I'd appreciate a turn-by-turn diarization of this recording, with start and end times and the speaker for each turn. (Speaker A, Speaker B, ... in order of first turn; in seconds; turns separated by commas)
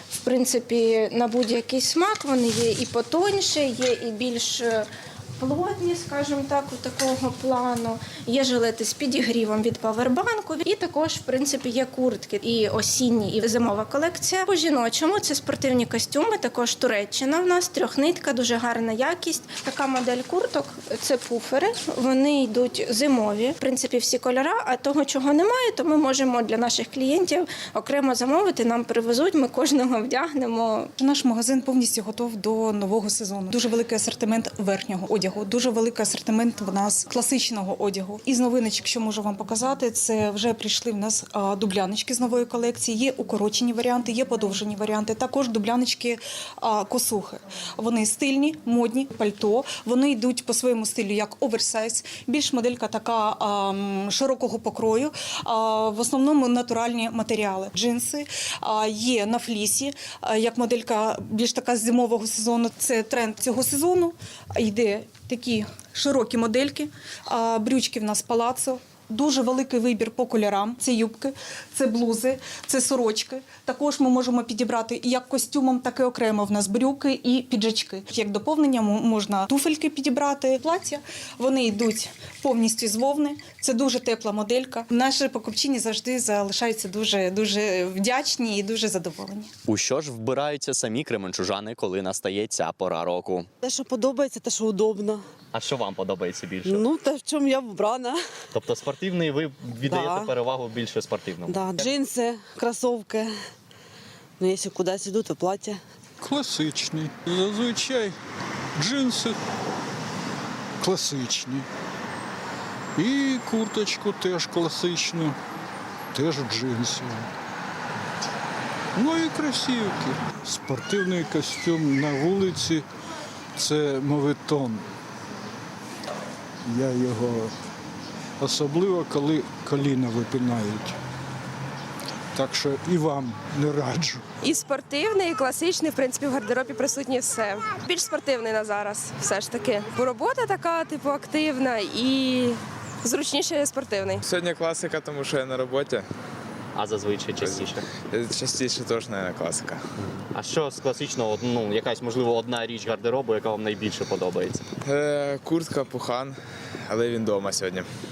Speaker A: 0.2-4.9, Speaker A: 5.4-30.9, Speaker B: 31.0-89.5, Speaker C: 89.7-93.5, Speaker D: 93.6-95.2, Speaker C: 95.5-96.9, Speaker D: 96.6-98.2, Speaker C: 98.5-101.9, Speaker D: 99.8-100.3, Speaker D: 101.5-103.3, Speaker D: 104.4-105.8, Speaker E: 106.2-108.2, Speaker E: 108.8-109.4, Speaker E: 110.8-111.7, Speaker E: 113.0-115.4, Speaker E: 116.1-117.3, Speaker E: 119.0-122.8, Speaker E: 123.6-124.8, Speaker E: 126.6-127.5, Speaker E: 128.4-130.9, Speaker E: 132.3-134.2, Speaker F: 134.4-144.2, Speaker G: 144.2-146.1, Speaker C: 146.7-147.8, Speaker G: 147.4-149.8, Speaker C: 150.3-154.6, Speaker G: 154.8-157.8